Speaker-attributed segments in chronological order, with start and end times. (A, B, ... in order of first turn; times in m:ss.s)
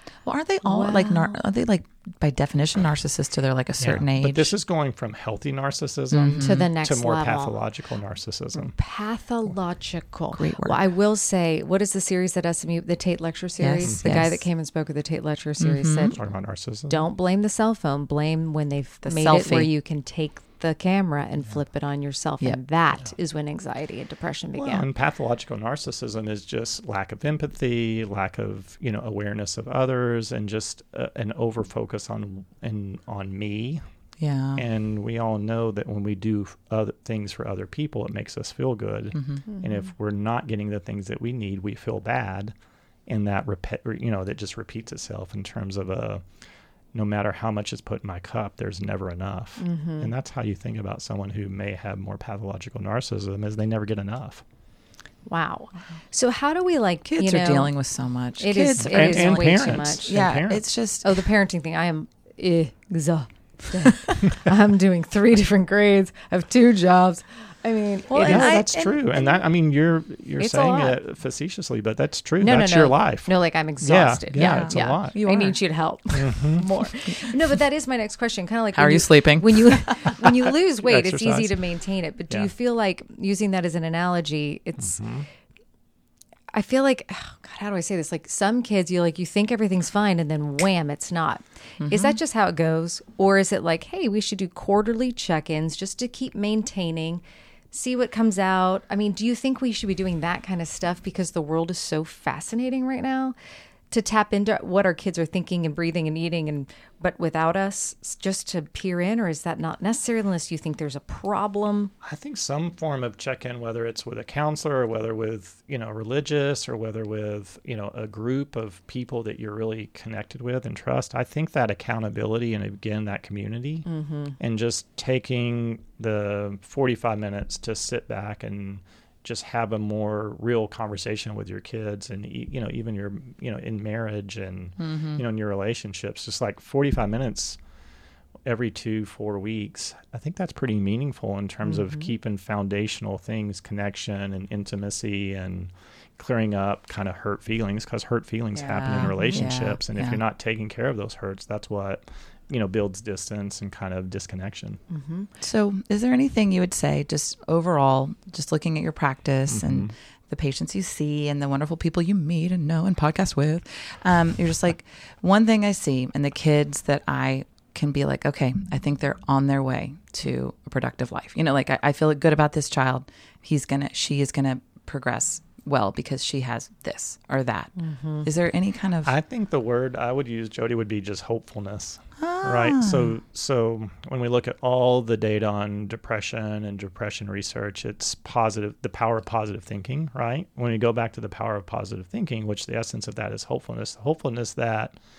0:00.2-0:04.5 A
0:00.6-0:01.4 B
0:03.8-0:08.8 C
0:06.1-0:06.7 A
0:06.4-0:07.6 B
0:08.5-0:16.2 B
0:10.3-0:10.8 A
0:13.6-0:14.4 A
0:15.6-0:16.1 A
0:16.1-0:17.0 C
0:16.9-0:24.9 B
0:19.0-0:19.7 A
0:24.6-0:33.8 C
0:34.2-0:34.6 A
0:34.6-0:42.5 C
0:39.1-0:39.4 A
0:39.5-0:39.8 B
0:43.1-0:46.3 C
0:46.9-0:54.4 C
0:49.6-0:50.1 B
0:55.3-0:57.7 B
0:57.0-1:01.3 A
0:58.4-1:00.1 B
0:58.8-1:00.6 C
1:01.0-1:08.7 B
1:08.1-1:09.4 A
1:08.2-1:15.3 C
1:10.4-1:11.0 B
1:12.4-1:25.0 B
1:14.3-1:15.6 A
1:16.1-1:16.7 C
1:18.7-1:19.9 A
1:20.8-1:21.6 C
1:24.8-1:25.3 C
1:26.5-1:43.4 B
1:31.8-1:32.2 A
1:43.9-1:51.9 B
1:52.0-2:03.9 C
2:03.9-2:04.4 B
2:04.4-2:17.6 C
2:14.8-2:15.2 A
2:18.4-2:34.8 C
2:21.6-2:22.1 B
2:28.6-2:29.5 B
2:28.7-2:30.2 A
2:34.9-2:35.3 B
2:35.4-2:59.1 A
2:39.5-2:39.9 C
2:57.8-2:58.3 B
2:59.0-3:15.0 C
3:02.2-3:03.1 A